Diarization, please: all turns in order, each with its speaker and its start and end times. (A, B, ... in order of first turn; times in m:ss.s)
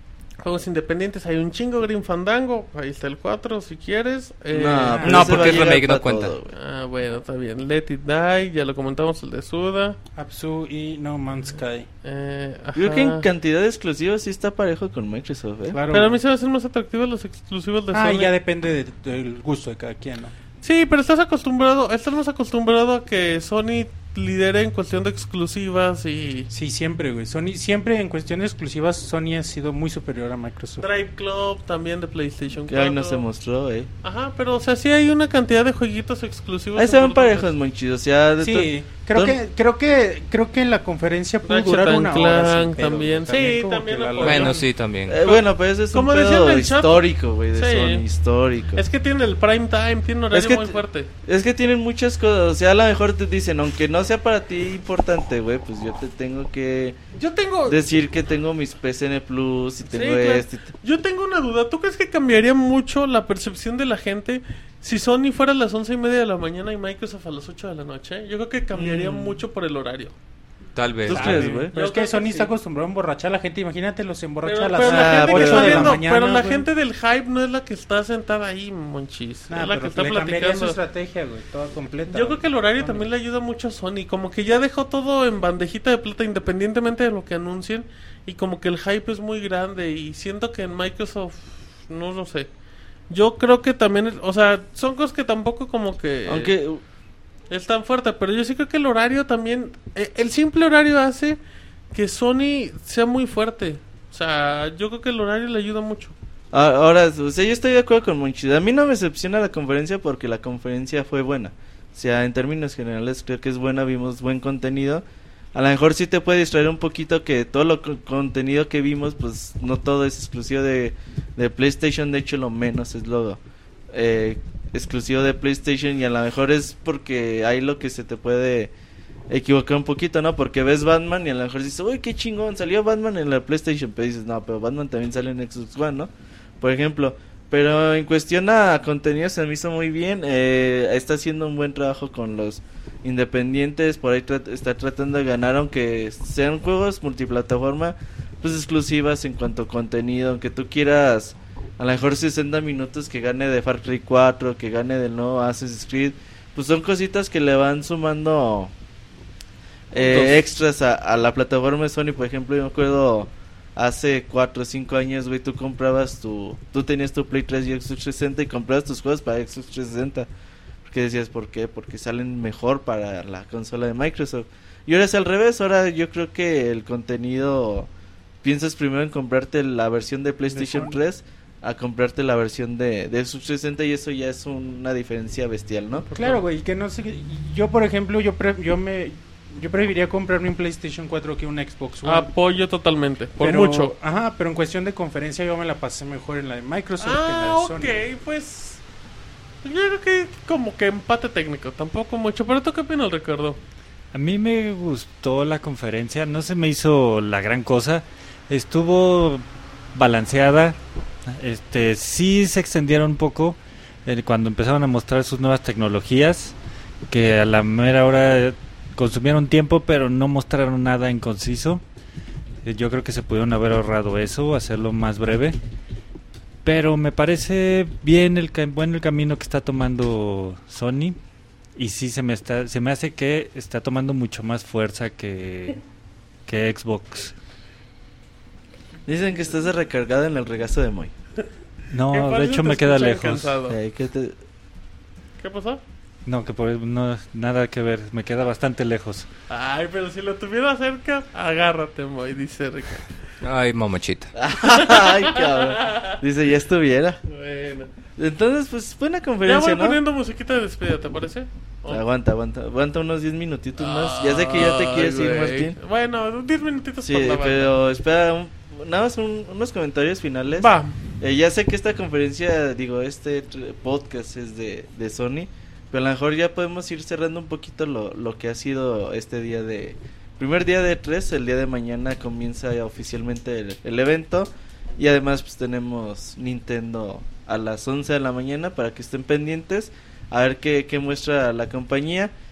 0:00.4-0:05.5 A
0:04.5-0:06.5 B
0:04.9-0:05.4 C
0:05.0-0:06.3 D
0:06.5-0:10.0 A
0:10.2-0:11.9 C
0:12.0-0:13.2 A
0:12.8-0:15.8 B
0:15.7-0:16.2 C
0:15.9-0:18.3 A
0:17.9-0:20.3 C
0:20.6-0:26.5 A
0:26.5-0:30.8 C
0:30.8-0:33.2 A
0:32.7-0:33.9 B
0:34.0-0:37.5 A
0:36.8-0:39.4 B
0:38.4-0:44.6 C
0:41.4-0:44.6 A
0:44.2-0:45.2 D
0:45.1-0:48.8 B
0:45.2-0:48.0 A
0:48.7-0:51.1 A
0:50.3-0:57.0 B
0:57.1-0:57.8 A
0:57.7-1:00.7 B
0:59.8-1:10.1 A
1:08.7-1:09.4 B
1:10.7-1:11.5 D
1:11.1-1:11.7 B
1:11.1-1:12.5 A
1:11.1-1:16.6 C
1:14.4-1:20.8 A
1:14.8-1:16.0 B
1:19.5-1:23.0 C
1:22.1-1:32.5 A
1:33.1-1:36.5 A
1:36.3-1:36.8 B
1:37.5-1:41.4 A
1:41.9-1:46.1 A
1:46.5-2:03.4 B
2:03.9-2:08.7 B
2:09.3-2:38.7 B
2:39.9-2:50.3 B
2:40.0-2:40.4 A
2:50.8-2:57.9 B
2:58.4-3:06.1 B
3:00.5-3:01.0 C
3:06.1-3:06.4 A
3:06.1-3:12.3 C
3:12.0-3:13.9 A
3:13.4-3:18.0 C
3:17.0-3:18.8 A
3:19.6-3:23.6 A
3:24.1-3:36.6 E
3:37.1-3:41.8 E
3:42.6-3:45.6 E
3:46.6-3:51.2 E
3:51.8-3:55.8 E
3:56.5-3:57.3 E
3:59.1-4:01.1 B
4:01.9-4:03.6 E
4:02.1-4:03.8 A
4:03.7-4:04.4 B
4:05.4-4:05.8 A
4:06.2-4:09.3 E
4:09.5-4:13.1 A
4:13.4-4:14.3 D
4:14.3-4:17.2 B
4:14.6-4:16.2 A
4:17.3-4:17.9 A
4:18.2-4:20.0 B
4:19.4-4:22.0 A
4:21.9-4:25.7 B
4:23.8-4:27.7 A
4:27.0-4:52.3 B
4:30.6-4:31.0 A